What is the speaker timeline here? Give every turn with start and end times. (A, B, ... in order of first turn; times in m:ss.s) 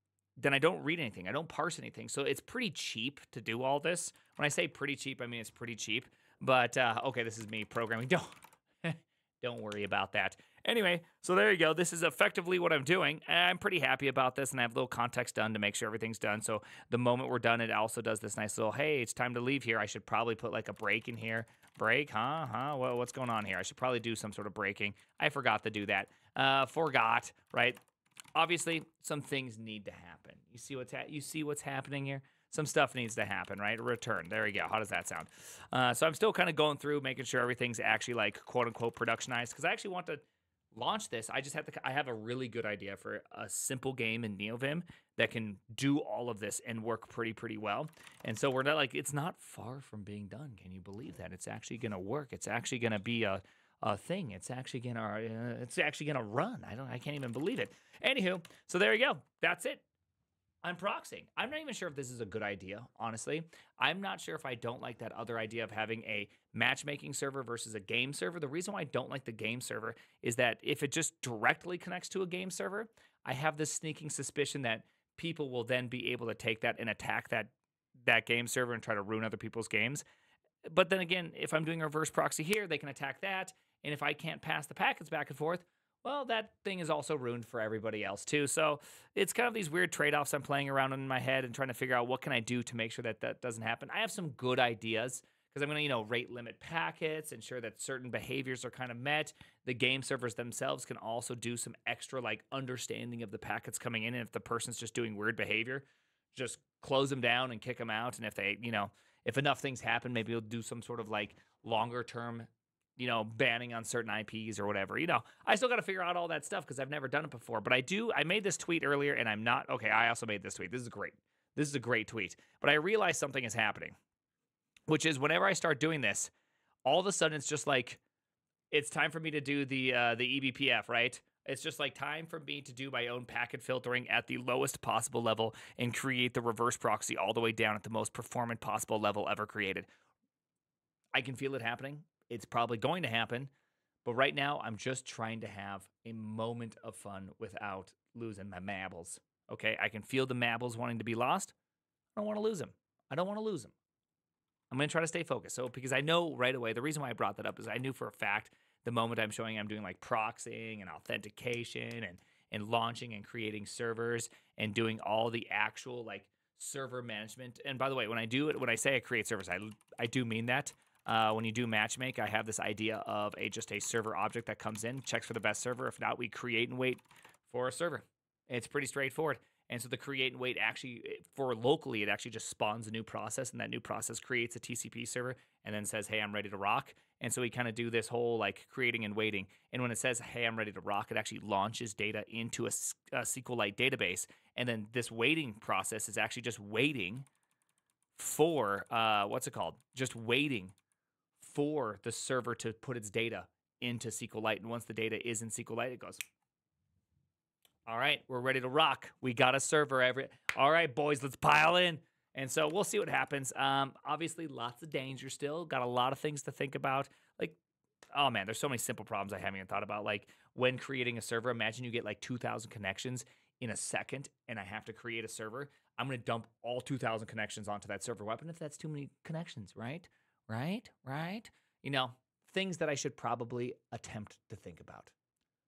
0:00.4-0:27.8 A
0:28.3-0:59.8 A
1:00.6-1:20.0 A
1:20.6-2:03.9 A
2:04.9-2:06.3 A
2:06.8-2:08.0 A
2:08.7-2:19.9 A
2:21.1-2:23.5 A
2:24.0-2:31.5 A
2:32.2-2:33.7 A
2:34.7-3:17.3 A
3:18.1-3:20.7 A
3:21.4-3:26.2 A
3:27.8-3:37.6 A
3:38.1-3:55.1 A